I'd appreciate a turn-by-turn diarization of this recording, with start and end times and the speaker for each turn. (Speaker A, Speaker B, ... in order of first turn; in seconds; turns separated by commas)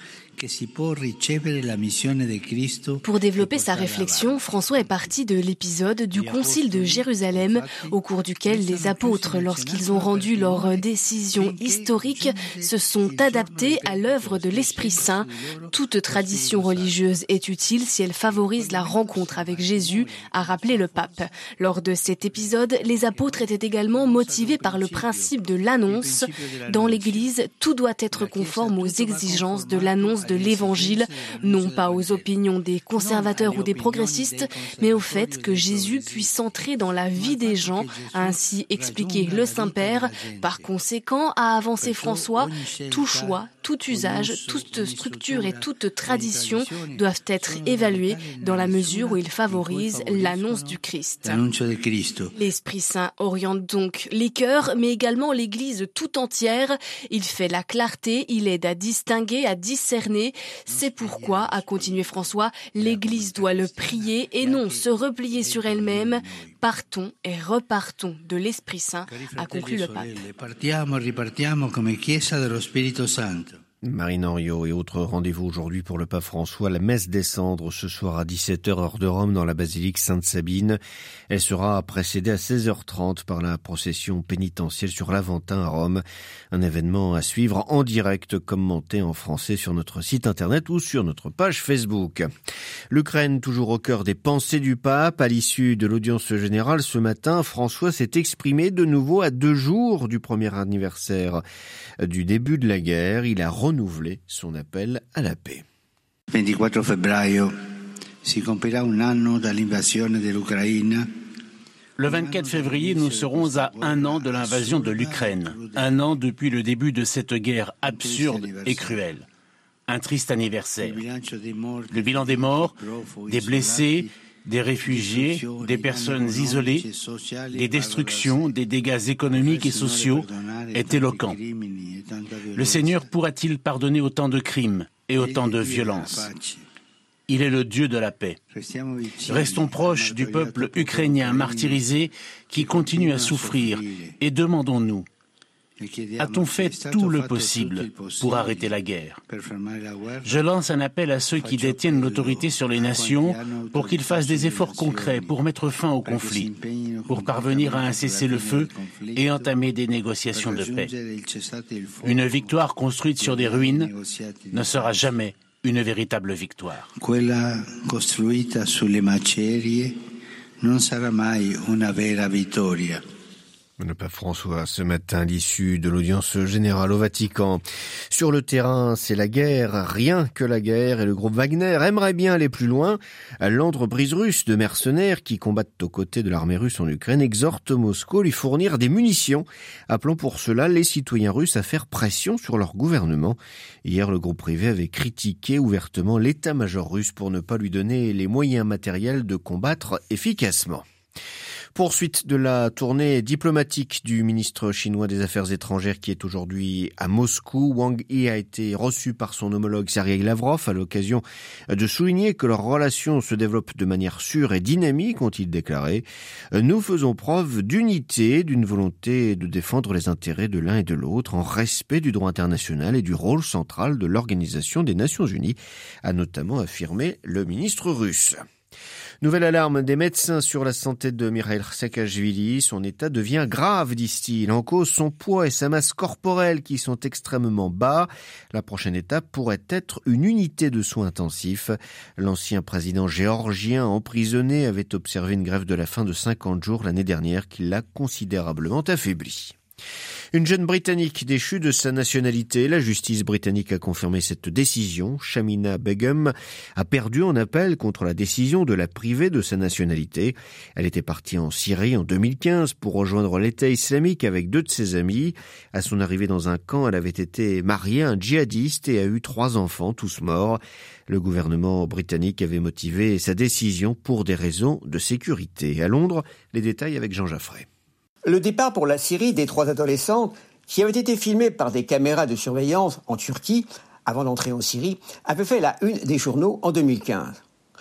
Speaker A: 0.4-5.1, Speaker B: 3.0-51.4, Speaker A: 6.1-17.0, Speaker A: 18.2-21.5, Speaker A: 22.3-25.3, Speaker A: 25.8-27.3, Speaker A: 28.1-32.3, Speaker A: 33.0-36.5, Speaker A: 37.1-40.7, Speaker A: 41.8-52.3, Speaker B: 52.3-70.2, Speaker A: 60.7-66.6, Speaker A: 69.1-73.6, Speaker C: 73.8-80.8, Speaker C: 81.3-92.3, Speaker C: 92.9-101.4, Speaker C: 102.0-105.7, Speaker A: 106.3-107.5, Speaker A: 108.2-111.1, Speaker D: 112.0-119.3, Speaker A: 112.0-116.1, Speaker A: 117.8-119.0, Speaker D: 119.9-121.0, Speaker A: 120.8-124.1, Speaker D: 121.9-126.9, Speaker A: 124.8-128.6, Speaker D: 127.5-131.4, Speaker A: 129.3-133.1, Speaker D: 132.5-136.3, Speaker A: 135.1-136.6, Speaker D: 137.3-138.4, Speaker A: 138.5-141.9, Speaker D: 139.3-145.1, Speaker A: 142.5-144.2, Speaker A: 145.8-148.8, Speaker D: 146.2-149.2, Speaker A: 149.3-150.5, Speaker D: 150.2-156.5, Speaker A: 151.3-155.4, Speaker A: 156.0-159.6, Speaker D: 157.1-160.9, Speaker A: 160.3-162.7, Speaker D: 162.0-163.9, Speaker A: 163.2-165.1, Speaker D: 164.5-166.9, Speaker A: 167.0-170.0, Speaker A: 170.6-173.0, Speaker C: 173.8-200.8, Speaker C: 201.7-228.4, Speaker C: 229.2-249.6, Speaker C: 250.3-277.7, Speaker E: 278.2-287.4